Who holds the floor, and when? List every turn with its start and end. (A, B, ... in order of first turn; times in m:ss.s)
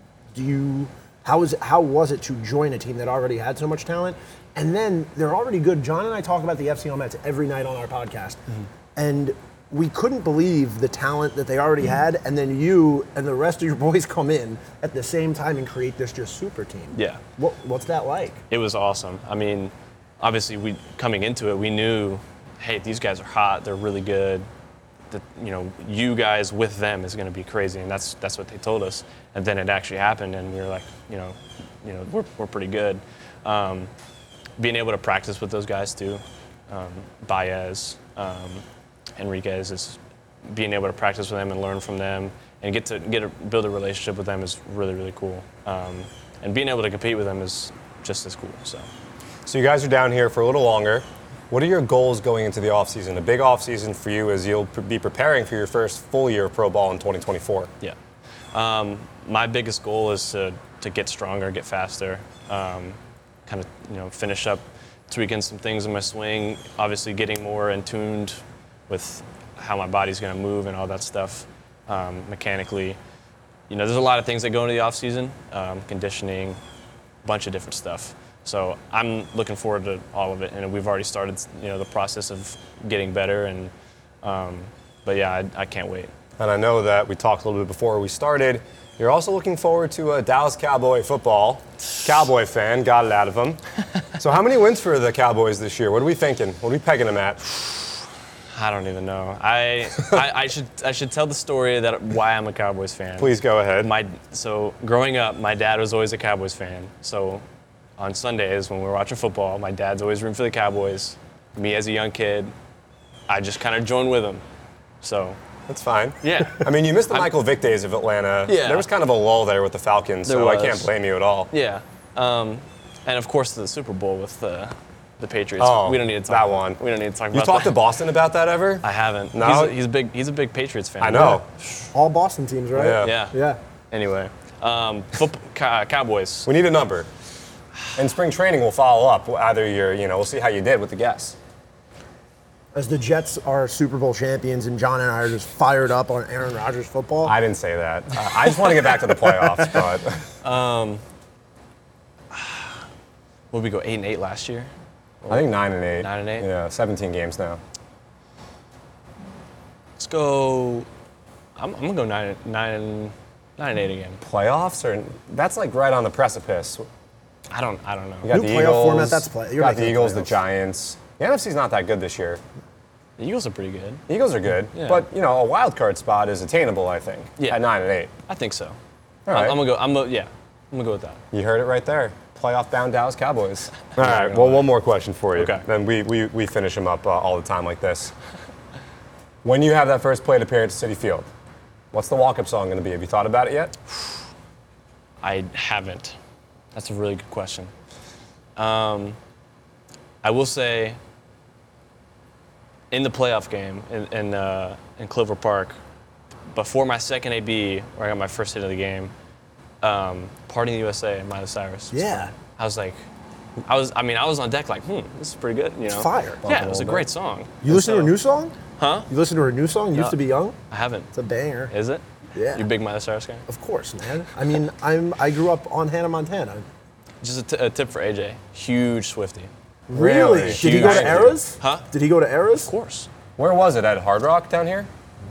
0:00.3-0:08.4 A
0:09.0-0:18.4 A
0:16.9-0:17.2 B
0:18.5-0:24.5 B
0:25.1-0:33.9 B
0:34.6-0:38.6 B
0:39.2-0:48.9 B
0:49.5-0:57.7 C
0:58.5-1:13.0 B
1:13.7-1:16.6 B
1:17.2-1:26.1 B
1:26.4-1:33.6 C
1:34.2-1:37.4 C
1:38.5-1:47.4 B
1:43.2-1:43.9 C
1:48.0-1:52.5 B
1:53.3-1:54.4 B
1:55.0-1:55.4 B
1:55.7-2:01.5 C
1:56.2-1:57.4 B
1:58.5-1:58.9 B
2:00.2-2:00.9 B
2:01.5-2:07.8 B
2:05.6-2:06.8 C
2:07.3-2:09.8 C
2:08.8-2:11.9 B
2:11.0-2:11.5 C
2:11.1-2:11.4 A
2:11.9-2:13.6 A
2:12.7-2:13.2 C
2:13.0-2:13.4 B
2:13.9-2:16.5 B
2:16.4-2:17.1 C
2:18.0-2:21.4 C
2:22.7-2:27.3 A
2:27.2-2:30.3 C
2:30.4-2:31.0 B
2:32.3-2:32.8 B
2:33.5-2:35.5 B
2:35.3-2:37.6 C
2:36.0-2:36.5 B
2:40.0-2:40.9 B
2:41.6-2:44.2 B
2:44.2-2:46.9 C
2:47.5-2:48.3 B
2:48.2-2:52.4 C
2:48.3-2:50.4 A
2:53.2-2:54.0 B
2:54.1-2:58.1 C
2:54.7-2:55.1 B
2:58.3-2:58.8 B
2:59.3-2:59.6 C
2:59.3-3:01.2 B
3:01.3-3:08.1 C
3:04.0-3:04.7 B
3:05.3-3:05.6 B
3:09.4-3:11.3 C
3:11.9-3:13.7 C
3:15.2-3:16.2 B
3:16.8-3:17.7 B
3:18.6-3:19.2 B
3:20.2-3:21.0 B
3:22.9-3:25.8 B
3:26.5-3:29.1 B
3:29.8-3:33.0 B
3:31.9-3:32.3 A
3:33.7-3:38.2 B
3:35.9-3:37.0 A
3:36.4-3:37.0 C
3:37.6-3:38.6 A
3:38.8-3:39.1 B
3:39.1-3:40.6 A
3:40.7-3:41.1 B
3:41.1-3:41.7 A
3:41.7-3:43.4 B
3:42.4-3:42.7 A
3:43.5-3:46.6 A
3:47.2-3:49.5 B
3:49.9-3:52.7 A
3:49.9-3:51.4 C
3:50.4-3:51.9 B
3:52.6-3:53.1 B
3:53.4-3:54.9 C